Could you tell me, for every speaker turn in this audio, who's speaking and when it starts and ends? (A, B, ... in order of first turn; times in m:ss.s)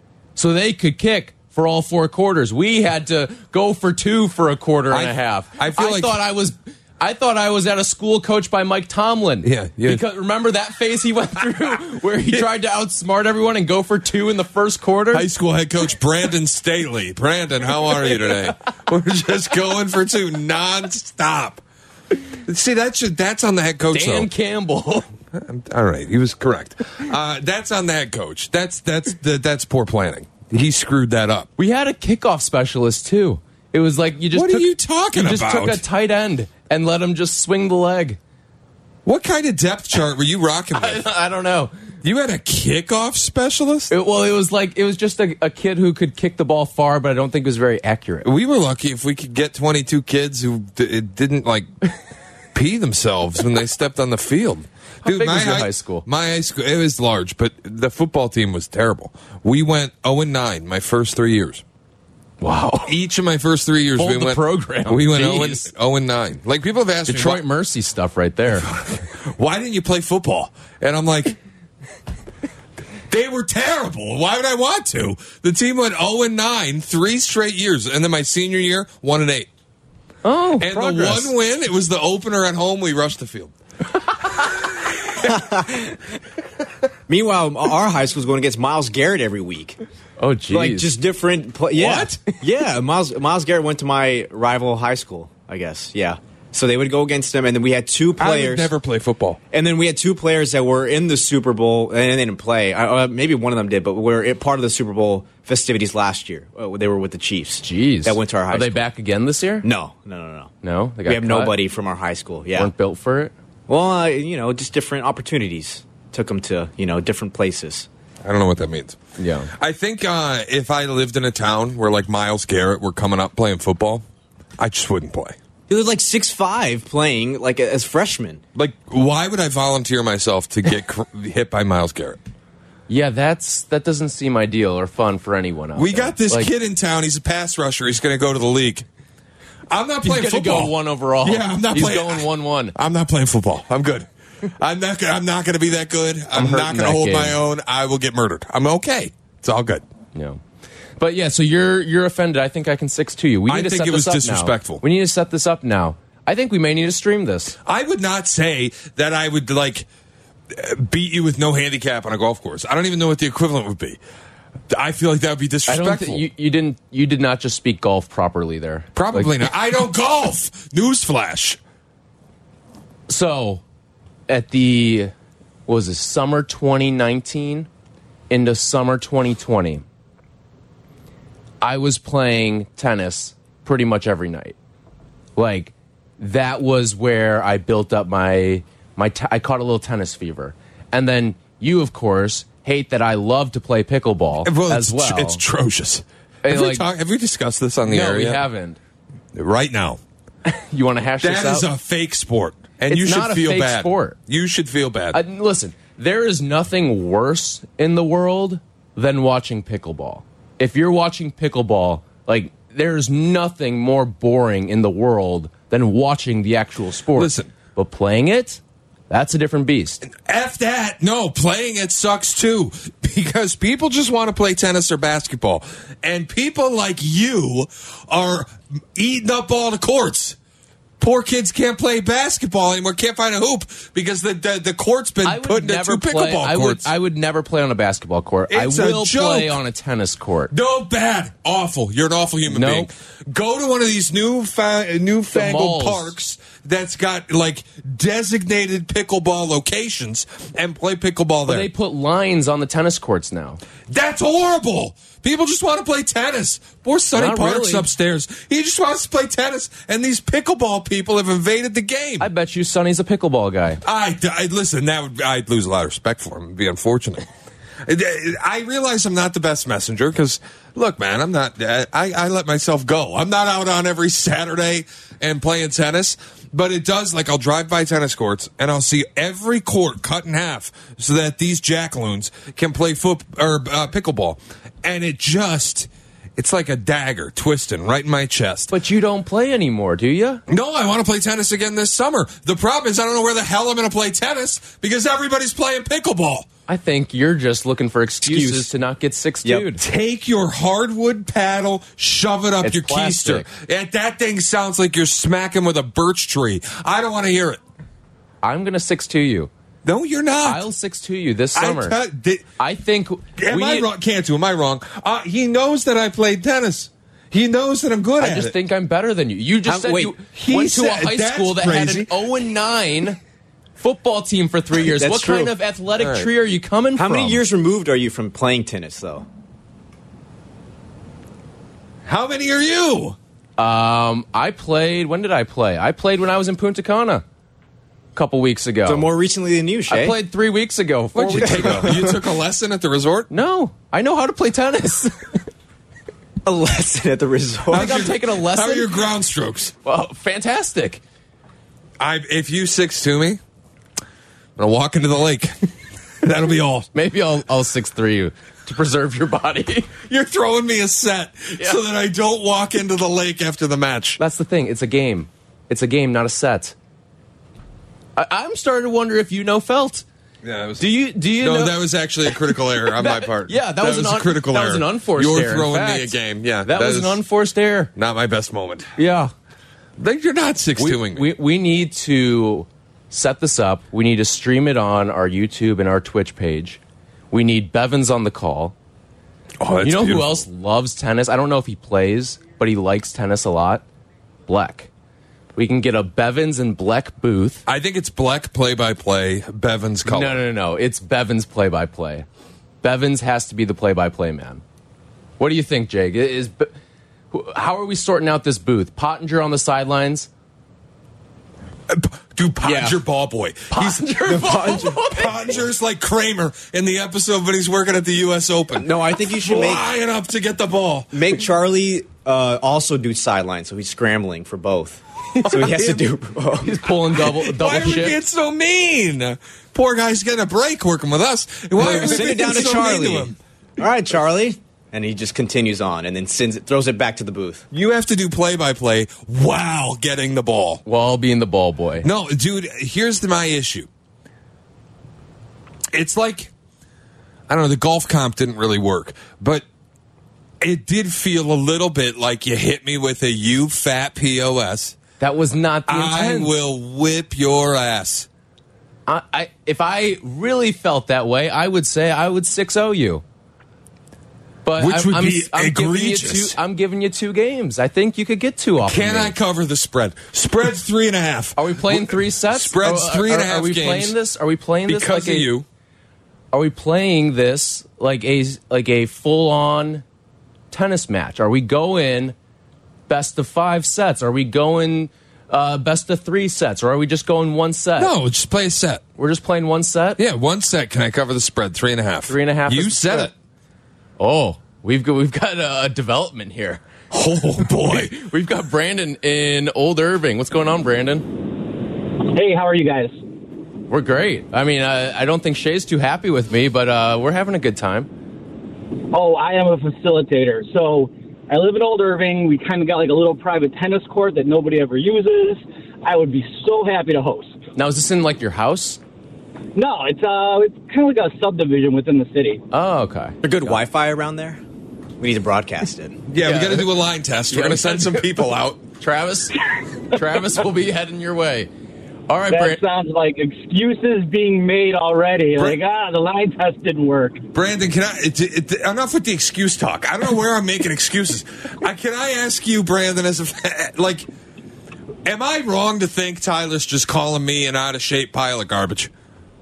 0:00.4-0:15.3 A
0:04.9-0:06.2 B
0:09.4-0:10.0 B
0:15.1-0:21.6 B
0:18.0-0:18.5 A
0:22.4-0:24.3 B
0:23.9-0:25.1 A
0:25.3-0:31.5 B
0:31.6-0:38.2 A
0:34.3-0:35.8 B
0:39.0-0:41.0 B
0:40.7-0:41.7 A
0:42.0-0:43.9 B
0:43.9-0:48.3 A
0:48.2-0:51.7 B
0:52.5-1:01.6 B
0:55.0-0:56.0 A
1:02.4-1:03.0 A
1:02.8-1:07.4 B
1:04.0-1:05.7 A
1:07.1-1:08.7 A
1:08.5-1:11.4 B
1:13.1-1:19.5 B
1:20.2-1:21.3 A
1:20.6-1:23.5 B
1:25.2-1:25.9 C
1:27.1-1:29.8 C
1:30.2-1:30.9 A
1:30.5-1:38.7 C
1:31.7-1:32.2 B
1:38.2-1:39.4 B
1:39.5-1:48.9 C
1:47.6-1:49.7 A
1:49.6-1:50.5 C
1:50.6-1:51.6 A
1:51.0-1:52.7 C
1:52.6-1:53.3 A
1:53.7-1:57.9 C
1:58.2-1:59.0 B
1:59.2-1:59.5 A
1:59.5-2:04.0 B
2:04.6-2:05.4 B
2:05.7-2:08.4 C
2:08.5-2:12.2 B
2:12.9-2:16.5 A
2:15.8-2:18.8 B
2:19.7-2:29.8 B
2:20.0-2:22.7 A
2:26.3-2:27.4 A
2:30.1-2:30.4 A
2:31.0-2:37.5 A
2:33.5-2:34.8 B
2:37.6-2:39.9 B
2:40.5-2:44.0 B
2:44.7-2:46.2 B
2:45.7-2:49.4 A
2:48.9-2:51.6 B
2:53.1-2:53.6 A
2:54.3-2:55.1 A
2:55.7-2:57.7 A
2:58.3-2:59.8 A
3:01.6-3:04.6 A
3:05.4-3:15.4 A
3:14.4-3:18.4 B
3:16.4-3:16.8 A
3:17.9-3:18.8 A
3:19.3-3:20.0 B
3:20.4-3:21.7 A
3:21.2-3:25.2 B
3:22.9-3:24.2 A
3:25.1-3:40.0 A
3:37.1-3:37.5 B
3:40.0-3:50.4 B
3:51.0-3:56.9 B
3:55.2-4:00.5 A
3:58.5-3:59.6 B
4:00.5-4:11.7 B
4:02.5-4:02.9 A
4:05.3-4:06.1 A
4:11.5-4:13.6 A
4:13.9-4:22.3 B
4:17.1-4:17.9 A
4:22.2-4:23.8 A
4:23.8-4:27.3 B
4:27.8-4:48.7 B
4:48.7-4:50.4 A
4:50.5-4:56.5 B
4:56.7-4:59.8 A
4:58.2-4:58.7 C
4:59.4-4:59.7 C
4:59.8-5:07.6 B
5:02.6-5:03.5 A
5:08.4-5:09.5 A
5:09.8-5:10.7 B
5:10.4-5:12.0 A
5:11.5-5:12.4 B
5:12.6-5:13.9 A
5:13.4-5:18.5 B
5:18.2-5:23.2 A
5:19.6-5:20.2 C
5:20.3-5:22.2 B
5:23.8-5:27.4 A
5:24.8-5:25.5 C
5:26.0-5:26.3 B
5:27.0-5:29.2 C
5:32.0-5:33.2 B
5:33.6-5:37.2 A
5:38.1-5:39.1 A
5:38.8-5:40.2 C
5:39.9-5:42.0 A
5:41.1-5:43.3 B
5:41.4-5:42.2 C
5:43.3-5:45.4 A
5:46.4-5:48.0 C
5:47.7-5:49.0 A
5:47.7-5:49.7 B
5:49.8-5:51.0 A
5:52.0-5:53.4 B
5:54.6-5:55.6 B
5:56.2-5:56.9 B
5:56.9-5:59.9 A
6:00.0-6:04.2 B
6:04.2-6:06.7 A
6:08.2-6:10.0 A
6:10.4-6:17.2 B
6:10.8-6:11.8 A
6:12.6-6:17.9 A
6:17.9-6:18.9 B
6:19.0-6:19.3 A
6:20.0-6:21.3 B
6:20.8-6:26.8 A
6:27.3-6:28.7 A
6:29.6-6:30.4 B
6:29.8-6:33.8 A
6:34.5-6:34.9 A
6:35.6-6:37.6 A
6:37.6-6:40.4 B
6:40.0-6:42.2 A
6:42.8-6:44.6 A
6:45.4-6:46.7 A
6:47.3-6:50.3 A
6:51.9-7:01.4 B
6:52.6-6:53.0 C
6:53.7-6:55.4 A
6:54.2-6:55.5 C
6:58.8-6:59.8 C
7:01.1-7:06.8 C
7:05.4-7:05.9 A
7:05.6-7:06.0 B
7:06.6-7:08.2 A
7:07.2-7:13.4 B
7:11.8-7:17.6 C
7:17.7-7:20.8 B
7:20.8-7:22.1 A
7:22.0-7:23.9 B
7:25.9-7:26.5 B
7:27.5-7:29.6 B
7:30.6-7:35.0 B
7:35.2-7:36.6 A
7:35.9-7:38.3 B
7:39.1-7:43.2 A
7:44.6-7:49.3 A
7:44.8-7:46.6 B
7:48.8-7:54.2 B
7:51.6-7:55.5 A
7:54.9-7:55.6 B
7:56.5-8:00.0 A
8:00.7-8:02.4 A
8:03.1-8:08.1 A
8:08.0-8:09.0 B
8:09.2-8:10.2 A
8:10.2-8:13.3 B
8:12.3-8:13.3 A
8:14.2-8:16.8 A
8:17.1-8:18.2 B
8:17.6-8:21.3 A
8:22.2-8:23.2 D
8:23.9-8:28.1 A
8:29.1-8:37.6 D
8:37.8-8:39.0 A
8:39.7-8:42.6 D
8:42.7-8:43.8 A
8:43.4-8:44.6 C
8:45.2-8:46.2 C
8:46.3-8:48.8 B
8:46.4-8:46.9 A
8:47.5-8:48.4 A
8:49.0-8:51.7 A
8:52.3-8:52.8 A
8:52.5-8:57.4 D
8:57.5-9:04.3 B
9:05.2-9:09.1 B